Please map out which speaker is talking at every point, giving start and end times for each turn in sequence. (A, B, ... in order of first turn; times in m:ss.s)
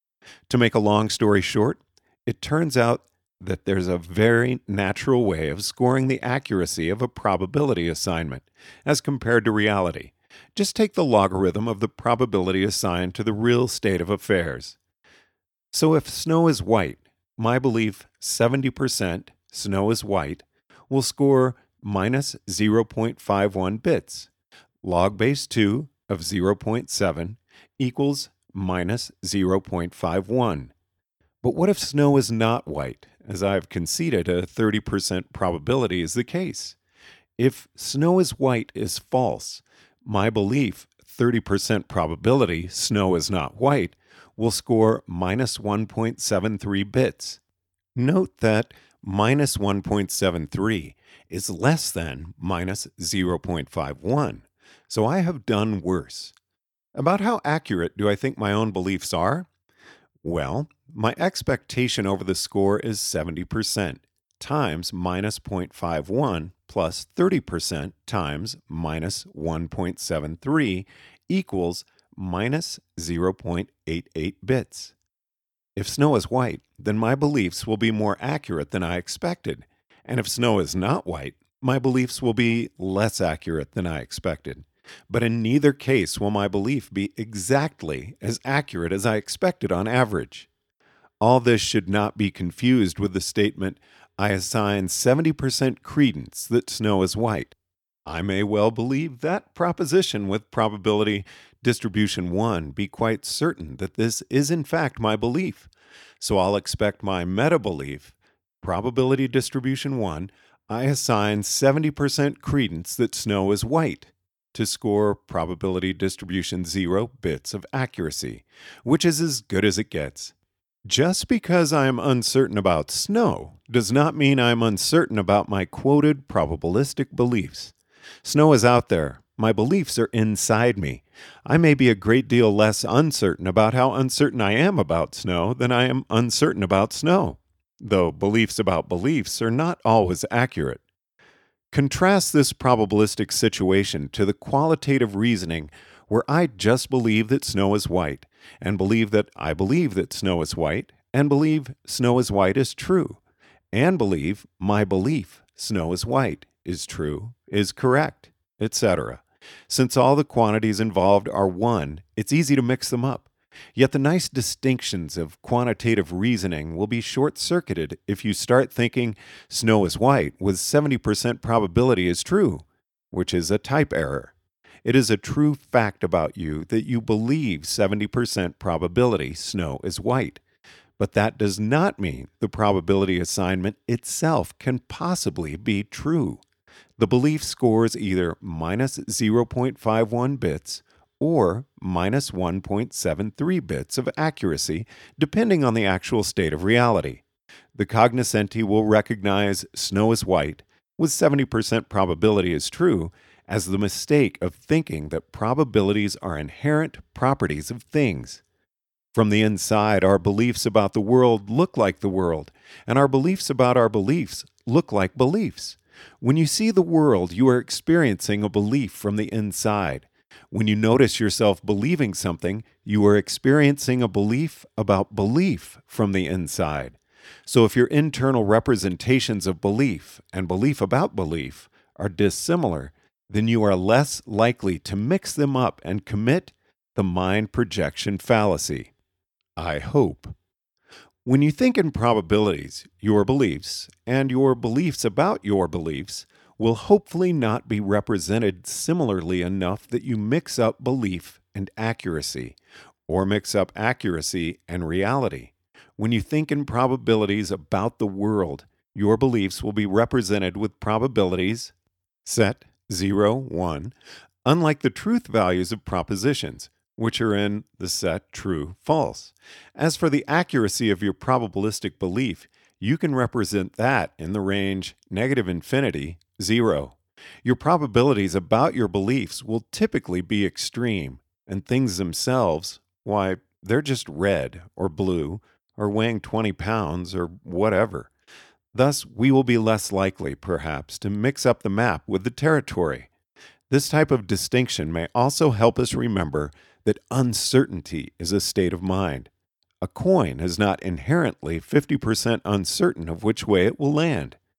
0:00.5-0:14.8 A
0:15.7-0:24.3 A
0:24.8-0:30.7 A
0:31.4-0:36.8 A
0:37.4-0:47.4 A
0:48.0-0:56.3 A
0:57.0-0:59.5 A
1:00.2-1:15.0 A
1:15.8-1:30.5 A
1:31.2-1:37.5 A
1:38.1-2:00.3 A
2:00.8-2:20.8 A
2:21.7-2:33.2 A
2:33.7-3:00.4 A
3:01.0-3:06.4 A
3:07.0-3:17.2 A
3:17.7-3:28.4 A
3:29.1-3:58.9 A
3:59.6-4:00.4 A
4:01.2-4:12.6 A
4:13.1-4:21.7 A
4:22.2-4:23.9 A
4:24.4-4:48.1 A
4:48.7-4:53.1 A
4:53.7-4:59.3 A
4:59.8-5:04.4 A